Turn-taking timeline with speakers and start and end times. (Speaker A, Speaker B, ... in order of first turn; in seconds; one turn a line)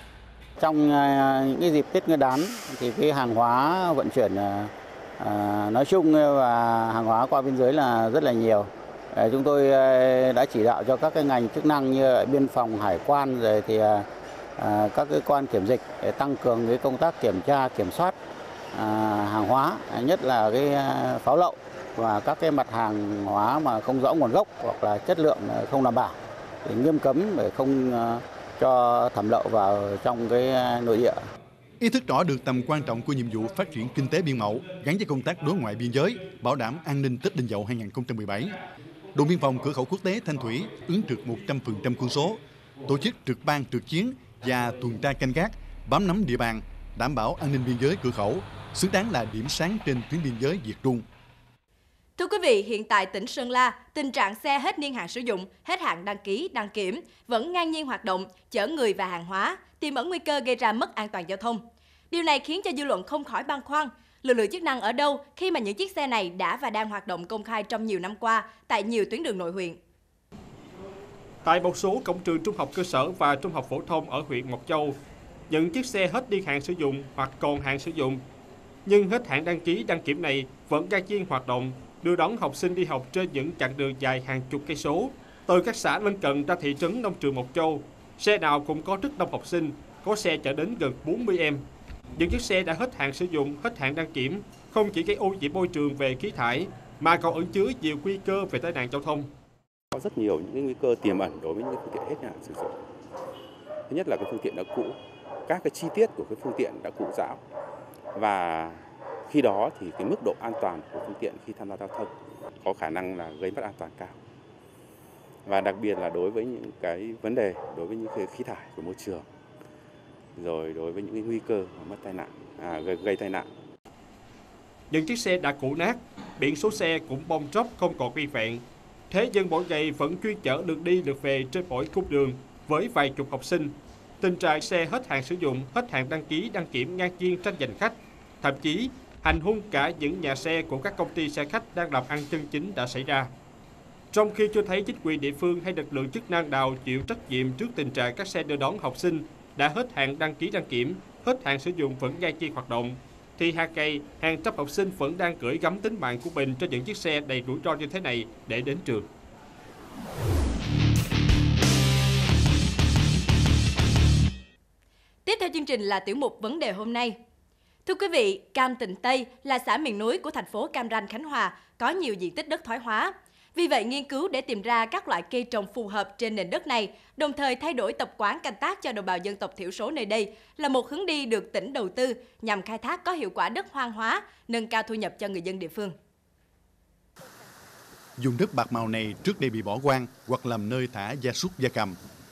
Speaker A: 0.6-14.1
Speaker A: 14.6-18.1
Speaker A: 18.7-26.1
Speaker A: 26.6-31.2
Speaker B: 31.8-38.6
Speaker B: 39.1-51.0
Speaker C: 52.2-69.8
Speaker D: 71.5-75.0
Speaker D: 75.5-78.2
Speaker D: 78.9-91.6
Speaker D: 92.2-99.3
Speaker E: 99.9-102.8
Speaker E: 103.9-107.4
Speaker E: 108.2-114.2
Speaker E: 115.5-119.2
Speaker E: 120.4-123.5
Speaker D: 124.9-143.3
Speaker D: 144.1-159.1
Speaker C: 165.2-167.2
Speaker C: 167.9-185.9
Speaker B: 188.2-192.0